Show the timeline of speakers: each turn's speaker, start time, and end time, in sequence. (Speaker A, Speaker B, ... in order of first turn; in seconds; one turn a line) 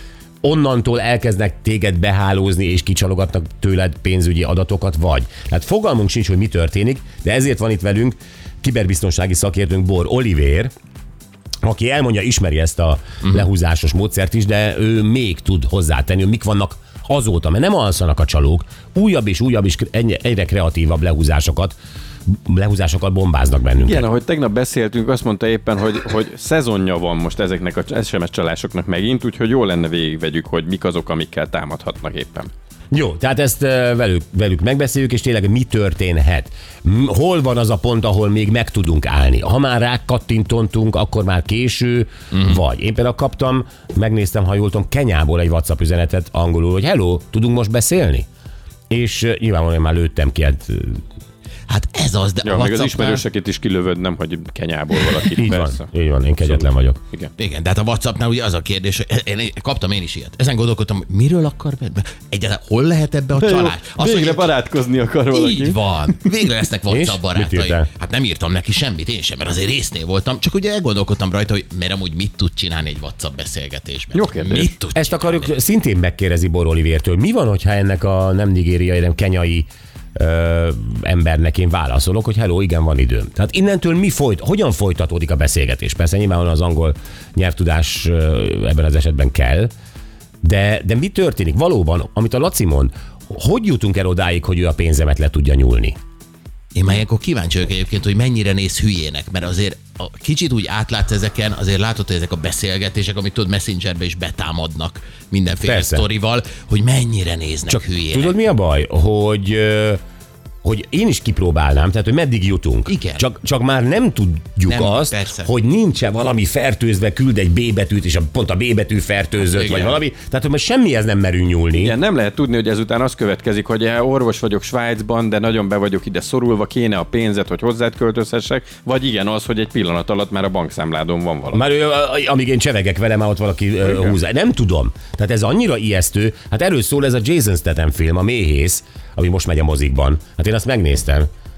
Speaker A: 0.4-10.7
Speaker A: 11.6-21.8
Speaker A: 22.3-24.1
Speaker B: 23.8-32.5
Speaker A: 32.9-48.3
Speaker A: 48.9-51.0
Speaker C: 51.7-53.2
Speaker B: 52.4-55.9
Speaker A: 55.4-57.0
Speaker B: 56.4-57.3
Speaker C: 57.4-64.5
Speaker B: 63.4-65.8
Speaker C: 65.3-75.5
Speaker A: 66.9-67.9
Speaker B: 74.1-74.7
Speaker A: 74.9-89.7
Speaker A: 90.4-96.0
Speaker C: 96.7-108.3
Speaker A: 105.6-106.0
Speaker A: 107.7-110.0
Speaker A: 110.6-121.9
Speaker C: 112.9-113.2
Speaker C: 114.7-115.5
Speaker C: 119.5-120.0
Speaker B: 121.8-131.6
Speaker A: 131.5-141.3
Speaker B: 133.8-134.1